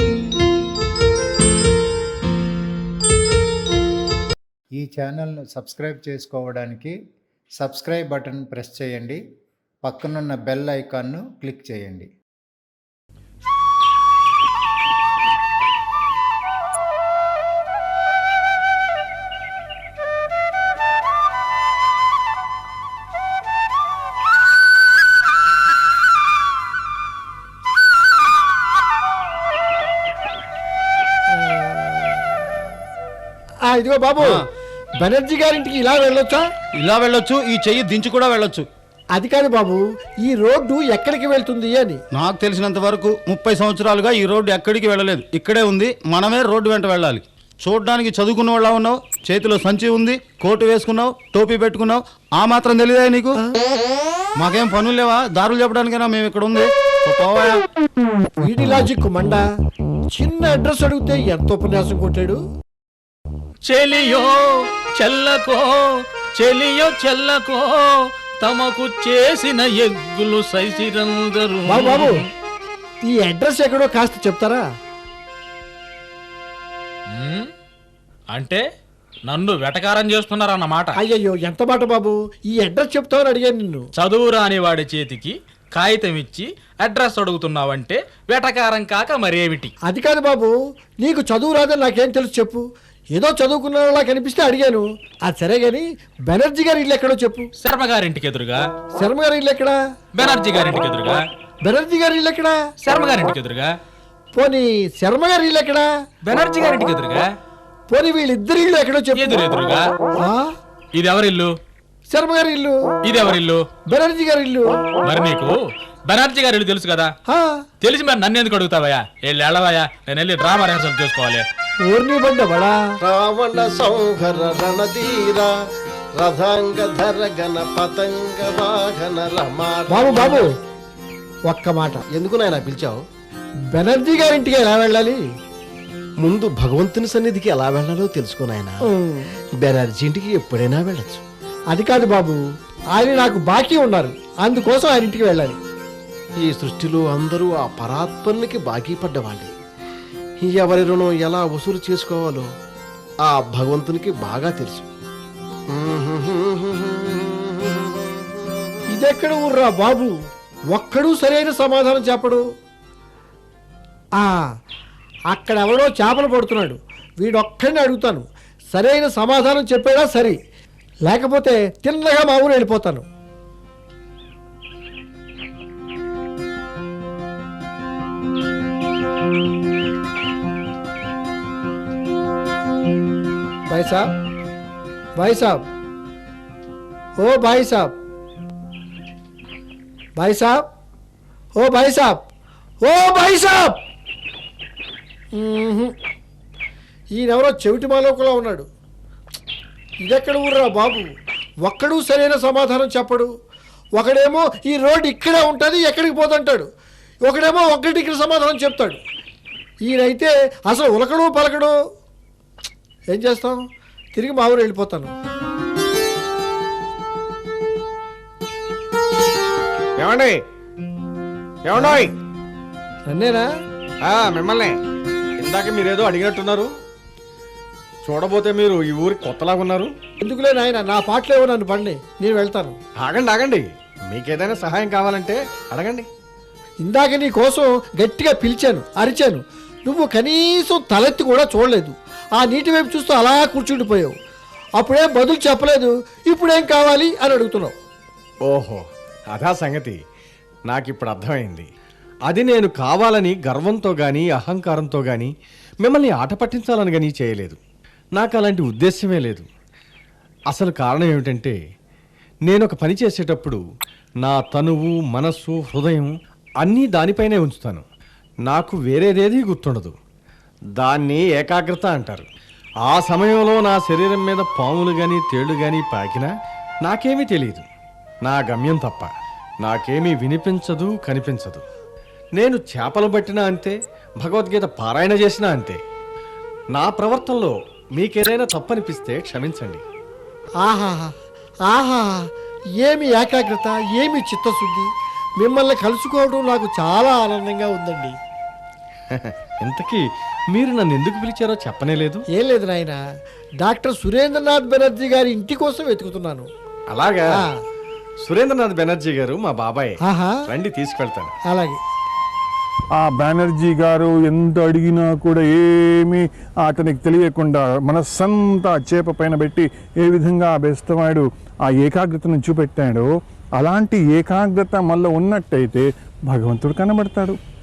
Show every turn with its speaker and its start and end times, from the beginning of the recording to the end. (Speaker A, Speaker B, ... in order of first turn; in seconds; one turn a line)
Speaker A: 4.7-7.0
Speaker A: 7.6-9.2
Speaker A: 9.8-12.1
Speaker B: 31.3-32.3
Speaker B: 33.7-34.4
Speaker B: 35.0-36.4
Speaker C: 36.8-38.7
Speaker B: 39.1-42.0
Speaker C: 42.1-53.4
Speaker C: 54.4-57.6
Speaker B: 58.4-59.4
Speaker B: 60.1-62.4
Speaker D: 63.7-64.4
Speaker D: 65.0-65.8
Speaker D: 66.4-72.3
Speaker B: 71.7-72.1
Speaker B: 73.1-74.6
Speaker D: 77.1-77.5
Speaker D: 78.3-78.6
Speaker D: 79.3-81.0
Speaker B: 81.0-83.9
Speaker D: 84.0-89.7
Speaker B: 89.9-92.6
Speaker B: 93.2-97.5
Speaker D: 97.6-98.7
Speaker B: 99.0-99.8
Speaker D: 100.2-101.2
Speaker B: 101.7-102.6
Speaker D: 102.8-103.7
Speaker B: 104.3-105.9
Speaker D: 106.3-107.3
Speaker B: 107.9-109.3
Speaker D: 109.2-109.9
Speaker B: 110.2-110.5
Speaker D: 111.0-111.5
Speaker B: 112.1-112.8
Speaker D: 113.1-113.6
Speaker B: 113.9-114.8
Speaker D: 115.0-115.5
Speaker D: 116.1-117.1
Speaker B: 117.3-117.6
Speaker D: 117.8-121.4
Speaker B: 121.9-122.8
Speaker E: 123.0-125.5
Speaker E: 126.2-130.5
Speaker B: 129.9-130.5
Speaker B: 131.5-132.0
Speaker E: 132.1-133.0
Speaker B: 133.7-135.2
Speaker E: 136.2-138.8
Speaker B: 138.9-139.3
Speaker E: 139.6-141.2
Speaker B: 141.7-142.4
Speaker B: 142.9-145.6
Speaker E: 146.4-149.5
Speaker E: 150.4-152.5
Speaker E: 153.3-154.9
Speaker E: 155.7-158.2
Speaker B: 158.9-160.1
Speaker B: 160.7-162.4
Speaker B: 164.2-164.5
Speaker B: 165.3-170.4
Speaker B: 171.1-173.1
Speaker B: 183.7-184.1
Speaker B: 185.2-185.6
Speaker B: 187.2-187.9
Speaker B: 190.2-190.6
Speaker B: 191.6-192.2
Speaker B: 192.8-193.8
Speaker B: 195.3-195.9
Speaker B: 197.2-198.7
Speaker B: 200.0-201.1
Speaker B: 201.6-203.3
Speaker B: 204.0-206.7
Speaker B: 207.2-209.0
Speaker B: 209.8-211.8
Speaker B: 213.1-213.6
Speaker B: 214.2-215.1
Speaker F: 220.0-220.4
Speaker F: 221.7-222.1
Speaker B: 223.1-223.5
Speaker F: 224.0-224.8
Speaker F: 225.4-226.7
Speaker F: 228.1-229.9
Speaker B: 230.2-232.8
Speaker F: 233.0-236.1
Speaker B: 236.8-244.1
Speaker B: 244.8-247.8
Speaker F: 248.5-250.0
Speaker F: 250.7-251.7
Speaker F: 252.3-255.3
Speaker F: 255.8-257.6
Speaker F: 258.2-259.5
Speaker F: 260.5-261.6
Speaker F: 262.5-263.6
Speaker F: 264.2-267.9
Speaker F: 268.5-270.0
Speaker F: 270.8-272.3
Speaker F: 272.9-276.3
Speaker F: 276.8-277.7
Speaker F: 278.2-279.1
Speaker F: 279.6-281.6
Speaker F: 282.4-285.8
Speaker F: 286.7-289.8
Speaker B: 290.6-291.1
Speaker B: 291.7-292.2
Speaker B: 292.8-294.9
Speaker B: 295.4-298.2
Speaker F: 299.1-302.2
Speaker B: 302.3-303.0
Speaker B: 303.6-306.5
Speaker F: 306.9-307.4
Speaker F: 308.2-310.0
Speaker B: 310.1-310.4
Speaker F: 310.5-311.3
Speaker B: 311.5-311.8
Speaker G: 313.0-323.1
Speaker G: 323.6-327.4